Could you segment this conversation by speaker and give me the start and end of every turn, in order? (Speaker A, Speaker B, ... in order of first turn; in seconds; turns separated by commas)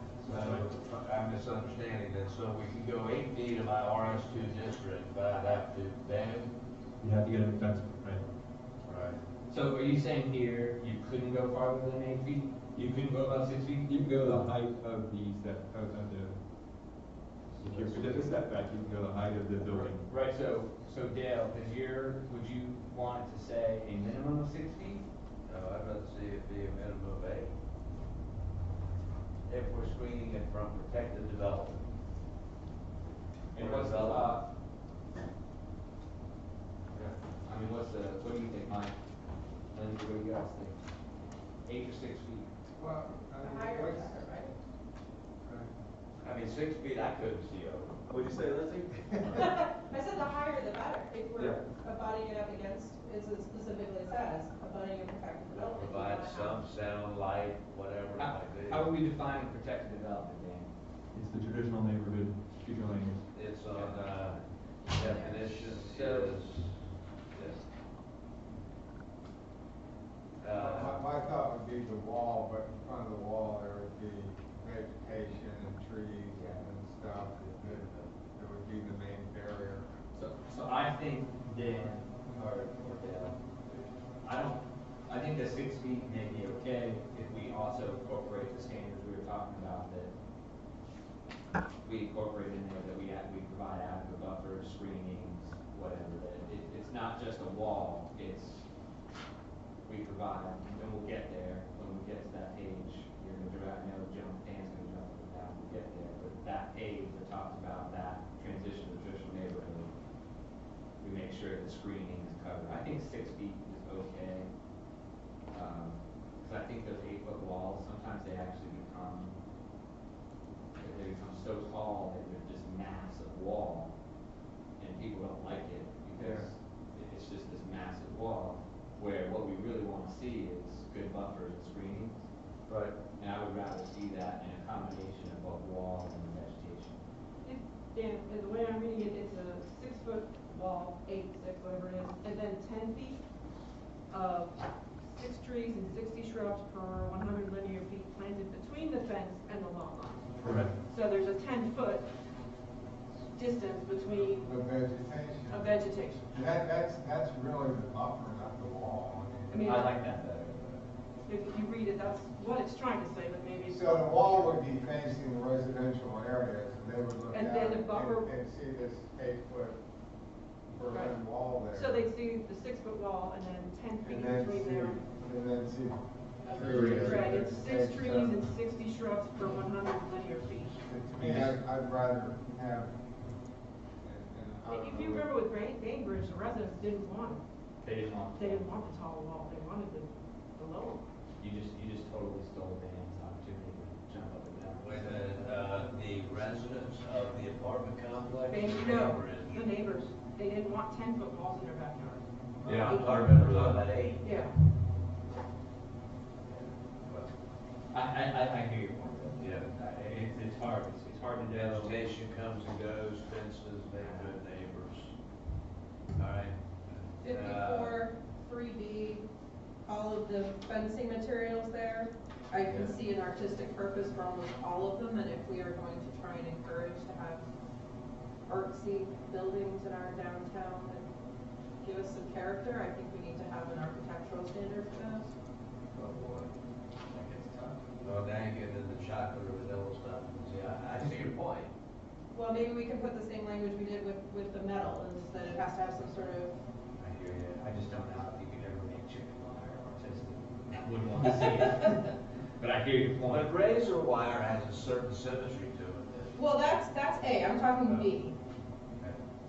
Speaker A: 0.2-6.5, Speaker B: 0.3-0.6, Speaker B: 7.0-8.2, Speaker A: 8.8-9.2, Speaker C: 9.5-13.9, Speaker B: 12.8-16.4, Speaker C: 17.6-18.3, Speaker B: 17.6-20.0, Speaker C: 19.6-25.0, Speaker A: 25.4-27.5, Speaker A: 29.5-31.8, Speaker C: 33.5-34.4, Speaker A: 33.5-34.4, Speaker C: 37.4-38.9, Speaker C: 39.7-40.8, Speaker C: 41.6-42.5, Speaker D: 42.8-44.2, Speaker E: 43.4-44.5, Speaker D: 45.4-45.8, Speaker A: 46.2-48.0, Speaker E: 49.3-56.6, Speaker A: 55.5-58.9, Speaker C: 58.1-60.7, Speaker B: 61.1-63.2, Speaker A: 63.3-66.7, Speaker C: 63.7-64.0, Speaker E: 64.8-65.4, Speaker C: 65.7-66.3, Speaker A: 67.3-67.6, Speaker A: 70.4-71.0, Speaker D: 70.5-79.8, Speaker C: 76.3-76.6, Speaker A: 77.3-78.1, Speaker C: 80.1-90.1, Speaker C: 91.8-98.7, Speaker C: 99.8-109.9, Speaker C: 111.0-114.5, Speaker C: 115.5-119.3, Speaker C: 120.8-123.9, Speaker C: 124.8-132.2, Speaker A: 126.2-126.5, Speaker A: 132.7-132.9, Speaker C: 133.2-137.0, Speaker F: 137.4-143.2, Speaker F: 144.1-152.1, Speaker B: 150.4-150.7, Speaker F: 153.3-154.5, Speaker D: 154.2-155.7, Speaker F: 155.5-156.2, Speaker D: 156.3-159.6, Speaker F: 159.5-160.0, Speaker C: 159.6-160.8, Speaker F: 161.3-164.5, Speaker D: 163.7-169.8, Speaker F: 167.3-168.3, Speaker D: 170.7-172.0, Speaker F: 170.8-171.2, Speaker F: 171.7-175.0, Speaker D: 174.0-178.4, Speaker C: 176.6-177.2, Speaker A: 176.6-177.0, Speaker F: 177.0-180.8, Speaker D: 180.9-182.9, Speaker C: 181.2-181.6, Speaker D: 184.0-185.3, Speaker F: 184.7-187.4, Speaker C: 187.8-188.7, Speaker F: 188.3-191.0, Speaker C: 191.4-195.5, Speaker A: 194.8-199.6, Speaker F: 198.5-202.2, Speaker A: 202.7-204.2, Speaker C: 202.7-203.8, Speaker F: 202.8-203.7, Speaker F: 204.2-204.5, Speaker A: 206.5-207.3, Speaker C: 207.9-212.0, Speaker A: 209.4-209.7, Speaker A: 211.5-215.1, Speaker A: 216.2-216.6, Speaker A: 217.1-218.0, Speaker E: 217.2-219.2, Speaker E: 219.8-227.4, Speaker E: 228.5-231.1, Speaker E: 231.8-235.3, Speaker C: 236.0-236.4, Speaker A: 236.0-236.4, Speaker C: 237.1-237.9, Speaker A: 238.0-241.7, Speaker E: 242.3-246.5, Speaker C: 247.0-253.5, Speaker A: 253.3-256.4, Speaker E: 256.3-258.4